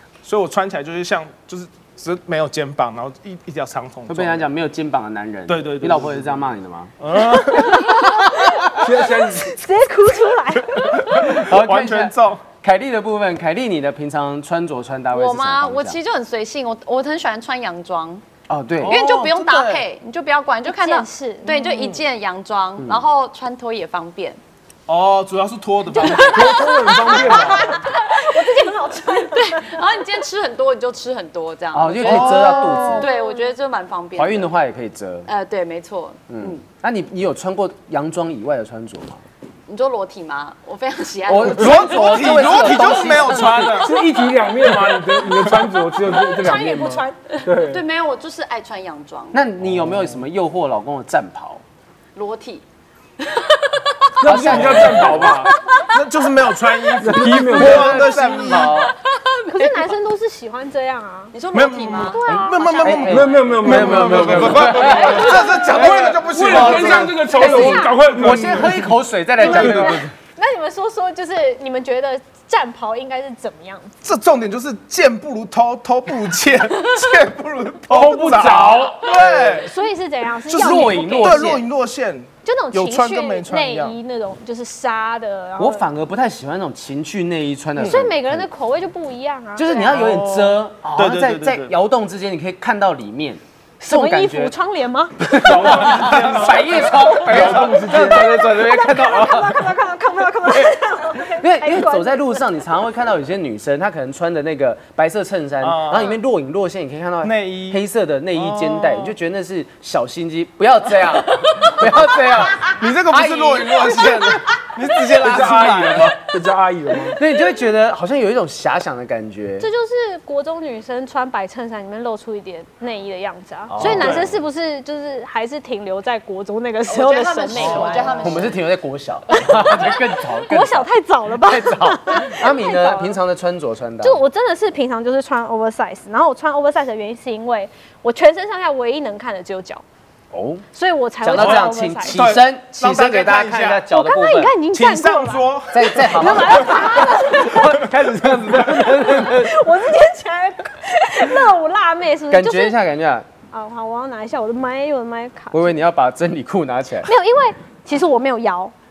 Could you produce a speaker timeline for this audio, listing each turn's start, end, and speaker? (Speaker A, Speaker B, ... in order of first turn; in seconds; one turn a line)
Speaker A: 0.2-4.5
Speaker B: 4.1-7.0
Speaker A: 5.5-6.2
Speaker A: 7.0-8.1
Speaker B: 7.5-8.8
Speaker C: 7.5-11.3
Speaker D: 8.7-9.6
Speaker A: 10.8-12.4
Speaker B: 11.1-16.0
Speaker E: 15.1-18.2
Speaker B: 18.5-19.8
Speaker E: 18.8-24.4
Speaker C: 20.7-21.8
Speaker B: 22.8-23.0
Speaker A: 24.9-27.7
Speaker E: 25.9-34.5
Speaker C: 25.9-29.8
Speaker D: 26.1-27.7
Speaker B: 31.7-33.1
Speaker A: 32.0-32.9
Speaker C: 32.4-33.5
Speaker B: 34.2-35.3
Speaker E: 35.3-36.6
Speaker B: 36.3-39.2
Speaker E: 39.7-42.5
Speaker B: 41.3-43.9
Speaker A: 41.5-43.9
Speaker D: 43.8-47.9
Speaker A: 44.9-45.6
Speaker C: 46.1-47.4
Speaker E: 47.6-49.4
Speaker B: 49.3-51.6
Speaker E: 52.1-52.6
Speaker E: 53.2-54.2
Speaker D: 54.2-55.5
Speaker B: 54.2-55.5
Speaker A: 54.4-55.3
Speaker E: 55.0-55.9
Speaker A: 55.8-58.9
Speaker D: 57.0-58.4
Speaker B: 57.1-58.9
Speaker E: 58.8-59.9
Speaker C: 59.5-61.4
Speaker E: 61.3-63.4
Speaker A: 61.5-68.9
Speaker C: 62.0-62.8
Speaker B: 62.3-70.1
Speaker D: 63.0-68.8
Speaker E: 65.1-65.5
Speaker C: 69.4-73.9
Speaker A: 69.5-69.8
Speaker D: 69.6-69.9
Speaker A: 74.0-79.7
Speaker D: 77.9-79.1
Speaker B: 78.0-79.5
Speaker C: 79.5-81.6
Speaker A: 80.5-84.0
Speaker B: 80.5-81.7
Speaker C: 82.4-85.8
Speaker B: 85.6-88.5
Speaker C: 87.8-90.1
Speaker B: 89.6-94.6
Speaker A: 89.9-91.7
Speaker C: 93.8-95.3
Speaker B: 95.2-99.8
Speaker A: 95.4-97.9
Speaker D: 95.5-98.3
Speaker C: 97.5-102.5
Speaker B: 100.4-116.1
Speaker A: 105.6-106.2
Speaker A: 107.2-107.8
Speaker A: 108.3-109.1
Speaker A: 112.5-116.2
Speaker D: 115.2-117.2
Speaker B: 117.1-119.7
Speaker C: 119.6-128.5
Speaker B: 123.7-124.4
Speaker A: 123.8-124.3
Speaker E: 126.9-128.6
Speaker A: 127.6-128.0
Speaker B: 128.2-134.2
Speaker C: 129.3-133.2
Speaker C: 134.0-139.8
Speaker B: 140.3-140.6
Speaker C: 140.7-142.3
Speaker B: 141.2-144.6
Speaker A: 141.3-143.9
Speaker C: 143.9-147.8
Speaker A: 144.7-147.0
Speaker B: 145.7-149.7
Speaker C: 148.8-152.8
Speaker B: 152.3-153.3
Speaker C: 153.5-155.8
Speaker B: 155.5-157.1
Speaker C: 157.1-158.7